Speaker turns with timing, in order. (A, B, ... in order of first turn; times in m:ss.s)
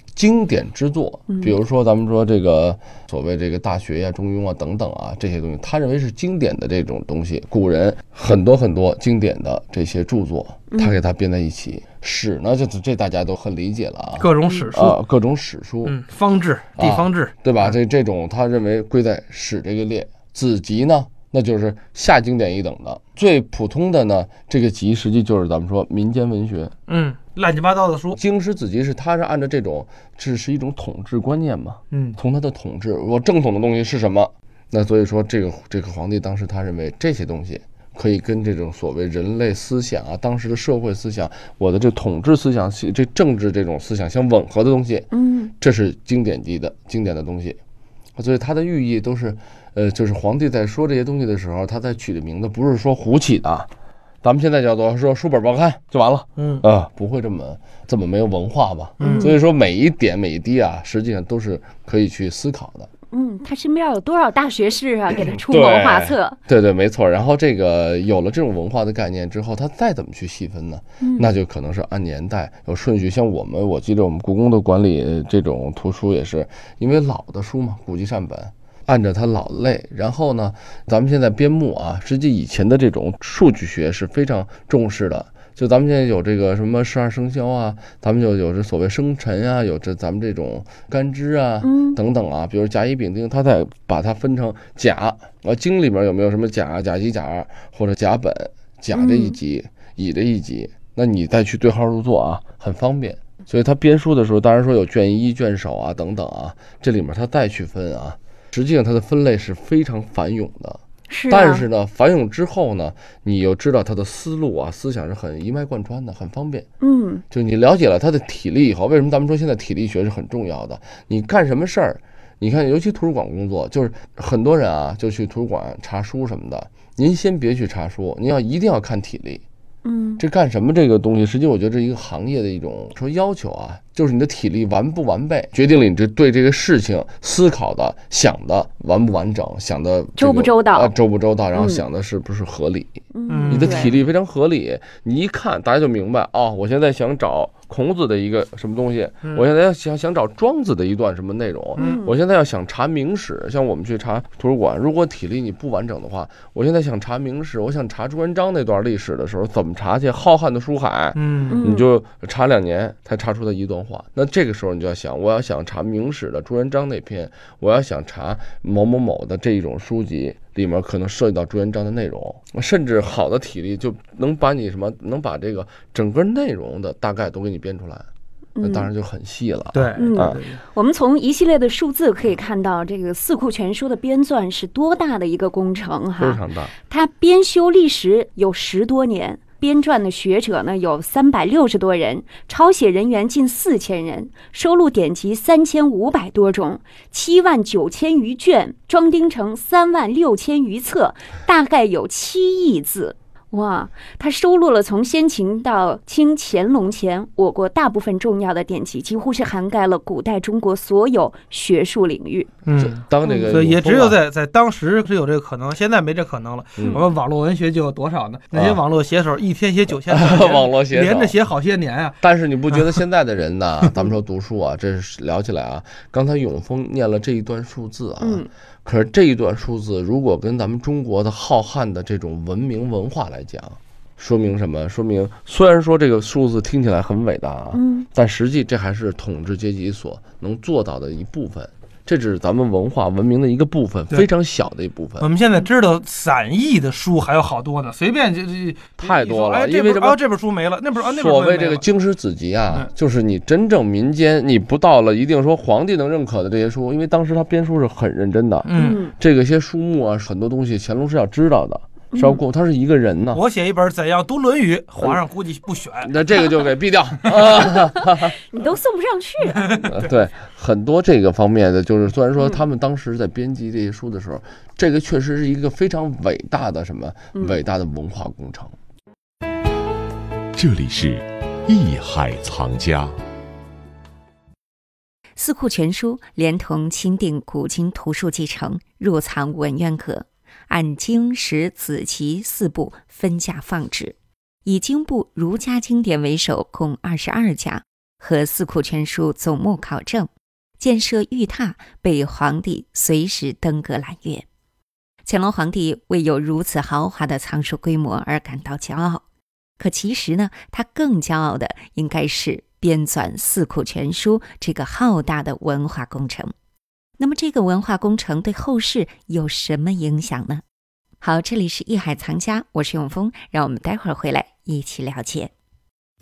0:00.2-0:16.0 A
0:01.3-0:01.5 B
0:10.7-0:11.0 B
0:14.2-0:15.0 C
0:14.5-0:14.7 B
0:15.8-0:17.7 C
0:16.8-0:26.7 A
0:26.9-0:28.2 C
0:28.2-0:47.6 A
0:31.9-0:32.2 C
0:45.1-0:45.5 B
0:48.2-0:53.7 A
0:54.2-1:02.9 A
0:56.4-0:56.6 C
0:59.0-0:59.3 C
0:59.0-0:59.4 B
1:03.1-1:06.4 B
1:05.3-1:56.7 A
1:11.0-1:11.3 B
1:31.6-1:32.0 B
1:38.9-1:39.3 B
1:51.1-1:51.6 B
1:56.8-1:57.2 B
1:57.3-2:09.4 A
2:09.8-2:10.2 B
2:10.2-2:58.1 A
2:20.2-2:20.9 B
2:21.6-2:21.8 B
2:23.1-2:23.9 B
2:23.3-2:23.9 C
2:31.8-2:32.2 B
2:41.2-2:41.7 C
2:41.5-2:41.9 B
2:58.6-2:58.9 B
2:58.6-3:00.4 A
2:59.7-3:00.6 C
3:00.0-3:32.5 B
3:06.2-3:06.8 A
3:32.7-3:43.0 C
3:32.8-3:34.2 A
3:33.3-3:33.6 B
3:36.8-3:37.0 A
3:38.5-3:38.8 A
3:40.1-3:41.4 A
3:42.2-4:05.3 A
3:48.2-3:48.5 B
3:57.7-3:58.1 B
4:05.2-4:11.8 C
4:09.0-4:10.2 A
4:11.0-4:23.4 A
4:18.7-4:19.0 C
4:18.8-4:19.1 B
4:22.1-4:22.4 B
4:23.3-4:26.5 C
4:26.0-4:28.4 A
4:28.1-4:29.9 B
4:29.6-4:30.1 C
4:29.9-4:38.7 A
4:40.6-4:43.2 D
4:45.4-5:00.3 E
5:00.8-5:04.5 E
5:05.2-5:09.2 E
5:09.8-5:16.5 E
5:17.2-5:20.6 E
5:21.2-5:25.5 E